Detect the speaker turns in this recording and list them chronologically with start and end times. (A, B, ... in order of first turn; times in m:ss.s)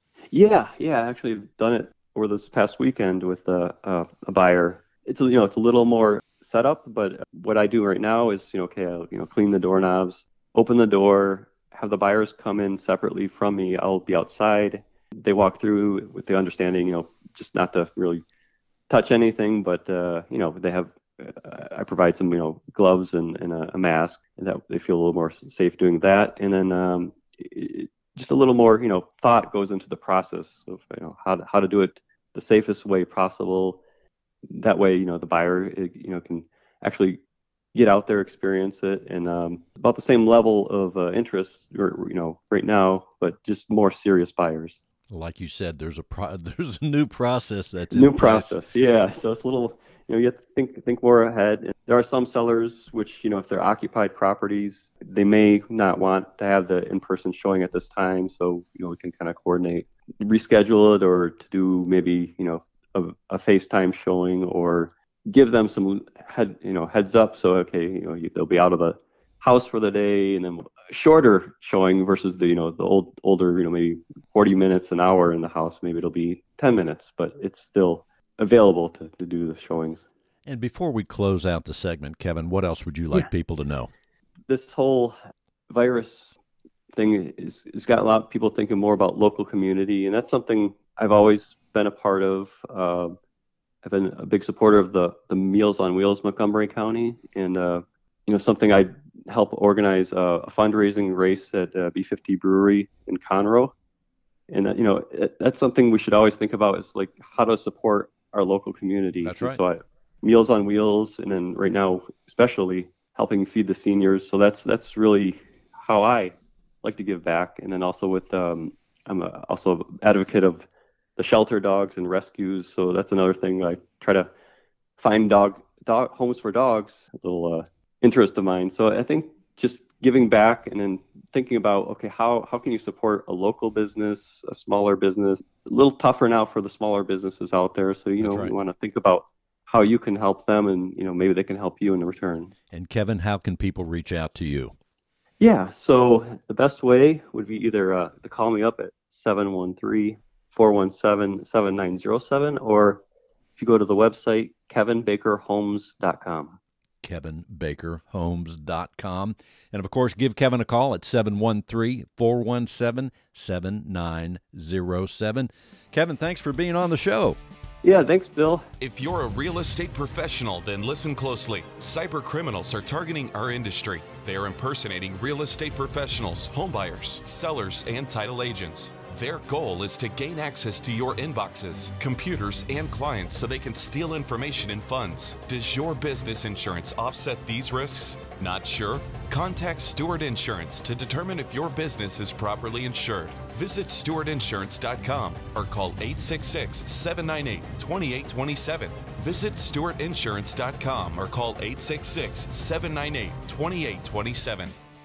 0:00.3-0:18.2 A
0:18.9-0:33.8 A
0:34.5-0:37.2 A
0:37.7-0:44.8 A
0:45.1-0:48.6 B
0:47.9-1:20.0 A
1:20.5-1:23.9 B
1:24.5-1:25.2 A
1:25.7-1:26.4 A
1:26.9-1:33.2 A
1:33.8-1:43.7 A
1:44.5-2:04.3 A
1:49.2-1:49.6 B
2:05.0-2:22.5 A
2:18.2-2:18.6 B
2:22.7-2:24.8 B
2:25.4-2:33.0 A
2:33.6-2:36.6 A
2:37.0-2:47.4 B
2:47.8-2:48.7 A
2:48.8-3:24.8 C